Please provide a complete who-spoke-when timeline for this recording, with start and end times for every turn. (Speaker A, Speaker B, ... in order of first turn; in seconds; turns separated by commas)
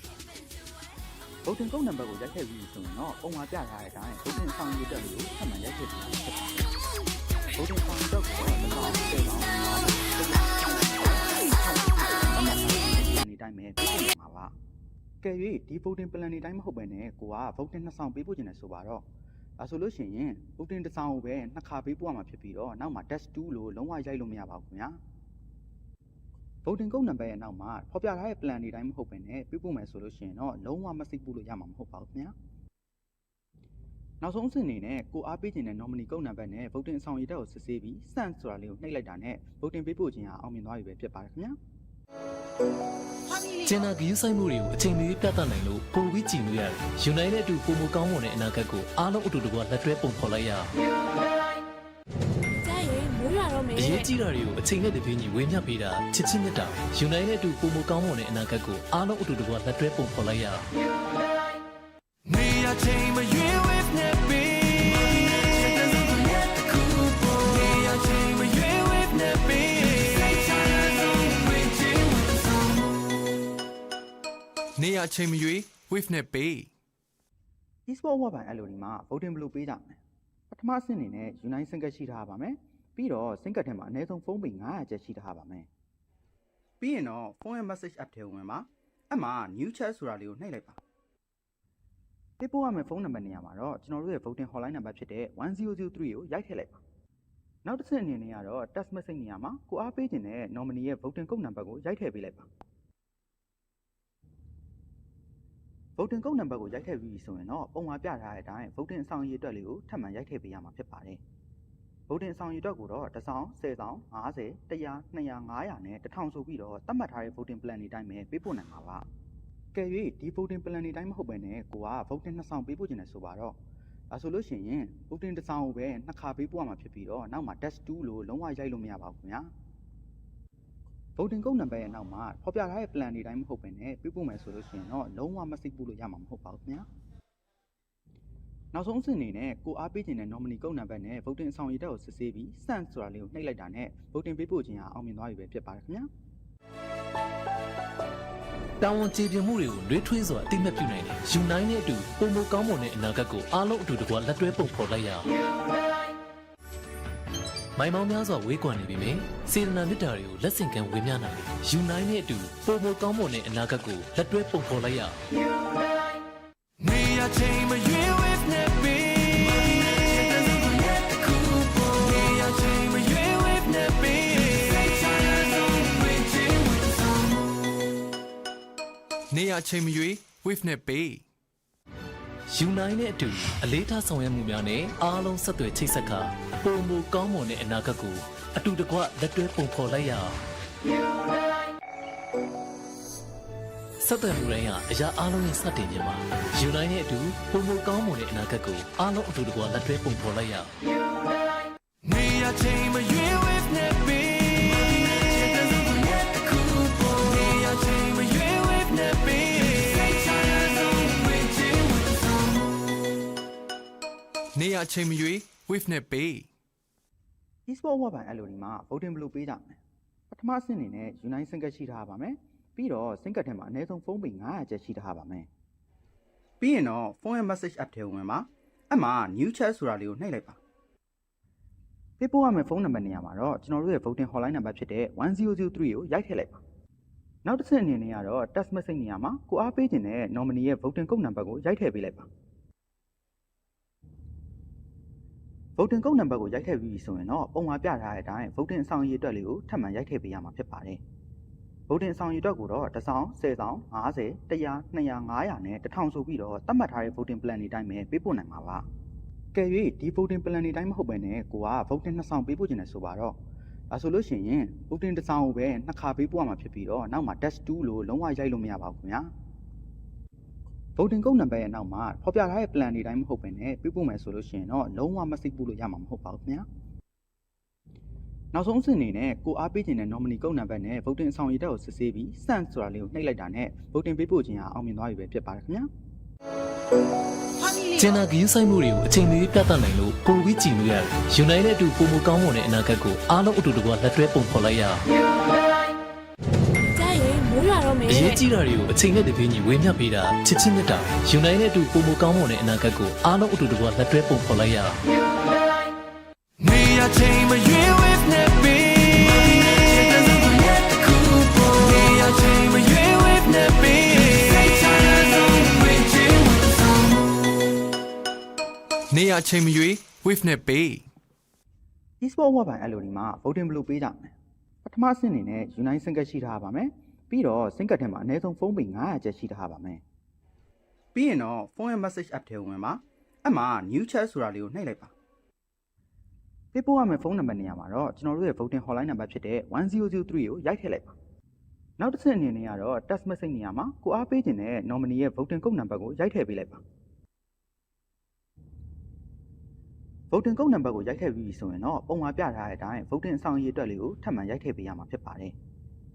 Speaker A: 1.4-6.6, Speaker A: 7.6-14.5, Speaker A: 15.2-19.1, Speaker A: 19.6-25.0, Speaker A: 26.6-32.3, Speaker A: 34.2-41.5, Speaker B: 43.6-50.7, Speaker C: 52.6-54.1, Speaker B: 53.8-60.6, Speaker D: 62.3-63.5, Speaker D: 74.8-76.7, Speaker A: 77.9-80.0, Speaker A: 80.5-85.7, Speaker A: 86.8-90.8, Speaker A: 92.4-96.8, Speaker A: 97.6-102.5, Speaker A: 106.0-111.2, Speaker A: 112.1-119.0, Speaker A: 119.7-123.6, Speaker A: 124.1-129.5, Speaker A: 131.2-136.8, Speaker A: 138.7-146.1, Speaker B: 148.8-155.3, Speaker B: 157.8-165.2, Speaker D: 166.8-168.6, Speaker D: 172.4-173.2, Speaker D: 174.1-174.5, Speaker D: 179.3-181.2, Speaker B: 182.5-190.3, Speaker B: 194.0-200.7, Speaker D: 202.1-203.4, Speaker D: 207.7-208.5, Speaker D: 214.6-216.5, Speaker A: 217.7-219.8, Speaker A: 220.3-225.5, Speaker A: 226.6-230.6, Speaker A: 232.2-236.6, Speaker A: 237.4-242.3, Speaker A: 245.8-251.0, Speaker A: 251.9-258.8, Speaker A: 259.5-263.4, Speaker A: 263.9-269.3, Speaker A: 271.0-276.6, Speaker A: 278.5-285.9, Speaker B: 287.9-295.0, Speaker C: 296.9-298.4, Speaker B: 298.1-305.0, Speaker D: 306.6-308.0, Speaker D: 311.9-314.1, Speaker D: 319.1-321.1, Speaker A: 322.2-324.3, Speaker A: 324.8-330.0, Speaker A: 331.1-335.1, Speaker A: 336.7-341.1, Speaker A: 342.0-346.8, Speaker A: 350.3-355.5